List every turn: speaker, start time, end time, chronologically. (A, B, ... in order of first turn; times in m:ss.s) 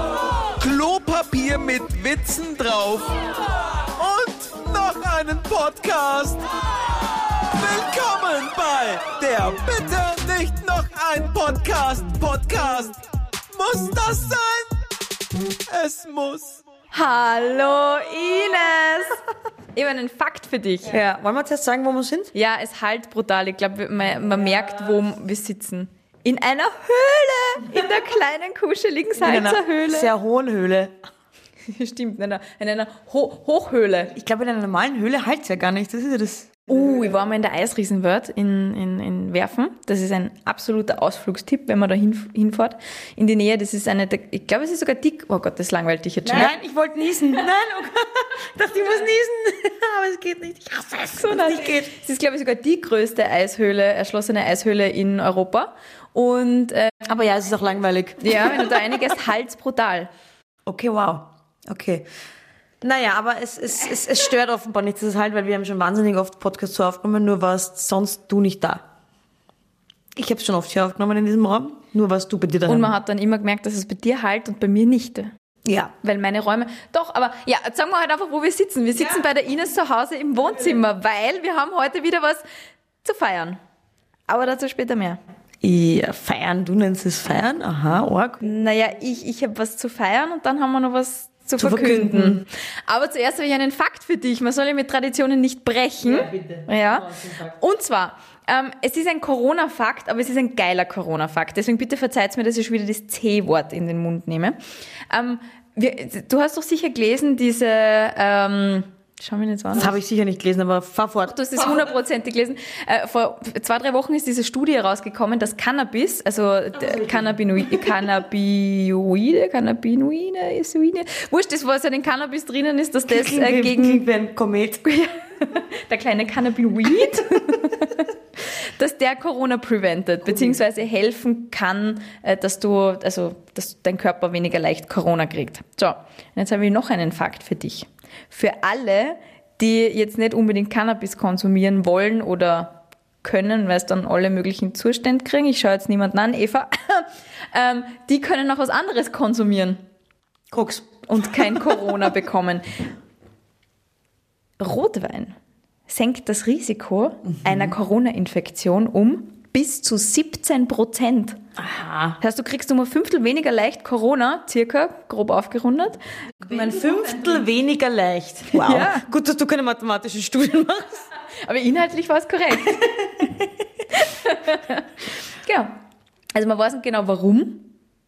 0:00.6-0:03.1 A
0:03.9-0:06.4 A
0:07.5-0:14.7 A
0:15.7-0:16.6 A
0:16.9-0:21.0 B
0:20.8-0:22.3 C
0:22.3-0:30.1 B
0:29.2-0:30.9 C
0:31.6-0:34.1 B
0:34.1-0:37.1 C
0:36.7-0:46.5 B
0:46.2-0:51.9 C
0:51.2-0:56.9 B
0:57.0-0:59.0 C
0:58.2-1:00.1 B
1:00.6-1:02.0 C
1:02.8-1:08.8 C
1:10.1-1:12.9 C
1:12.7-1:15.3 B
1:15.6-1:15.9 C
1:15.9-1:22.4 B
1:18.9-1:19.2 C
1:23.0-1:23.6 B
1:24.3-1:25.2 B
1:25.6-1:28.5 C
1:28.4-1:44.6 B
1:31.6-1:32.4 C
1:36.0-1:37.5 C
1:45.1-1:49.9 B
1:49.7-1:51.9 C
1:51.3-2:04.0 B
1:56.8-1:58.0 C
2:03.1-2:04.8 C
2:04.8-2:29.8 B
2:30.5-2:31.9 C
2:31.1-2:32.7 B
2:34.6-2:35.4 B
2:35.9-2:41.4 B
2:37.4-2:37.7 C
2:41.6-2:42.2 C
2:42.2-2:47.4 B
2:46.4-2:51.0 C
2:48.5-2:49.0 B
2:51.4-2:52.8 B
2:52.7-2:53.5 C
2:53.9-2:55.8 B
2:56.3-2:57.7 B